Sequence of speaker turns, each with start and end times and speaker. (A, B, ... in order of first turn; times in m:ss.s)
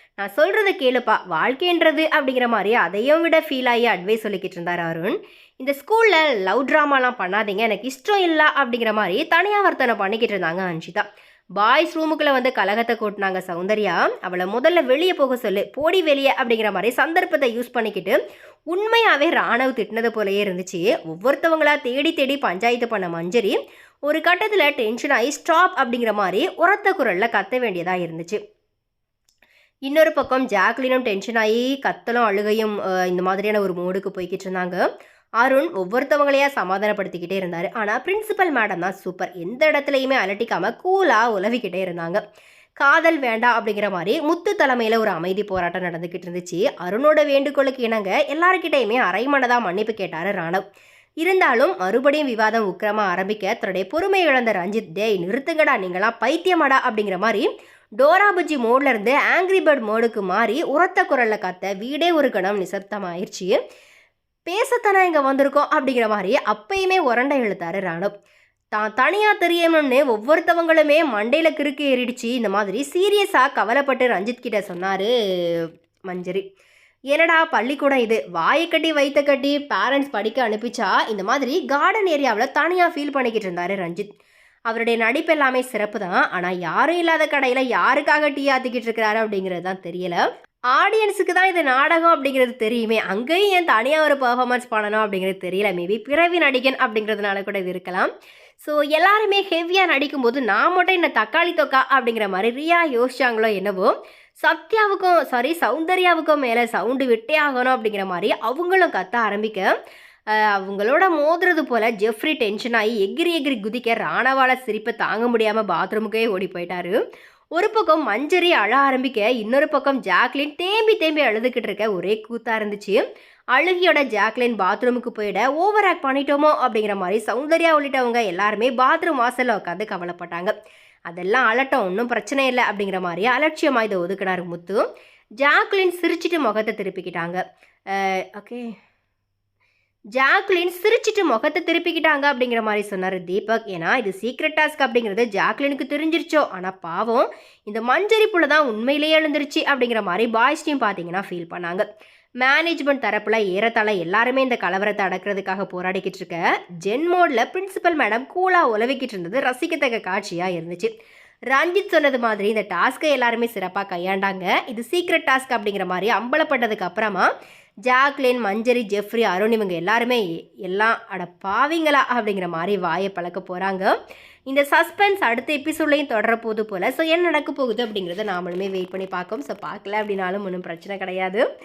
0:00.2-0:11.0 A
0:11.6-0:18.2 A
0:18.7-0:28.4 A
0:29.9-0:34.8 A
0:35.4-0:42.2 A
0:42.8-0:50.6 A
0:51.2-0:57.5 A
0:58.0-1:03.6 A
1:04.5-1:08.1 A
1:08.7-1:16.4 A
1:17.1-1:24.1 A
1:24.7-1:30.2 A
1:30.7-1:38.1 A
1:38.6-1:49.6 A
1:50.3-1:56.9 A
1:57.6-2:03.0 A
2:03.5-2:10.5 A
2:11.1-2:14.8 A
2:15.4-2:17.4 A
2:17.9-2:18.6 A
2:20.1-2:31.8 A
2:32.4-2:40.9 A
2:41.5-2:47.3 A
2:47.8-2:53.9 A
2:54.5-3:01.4 A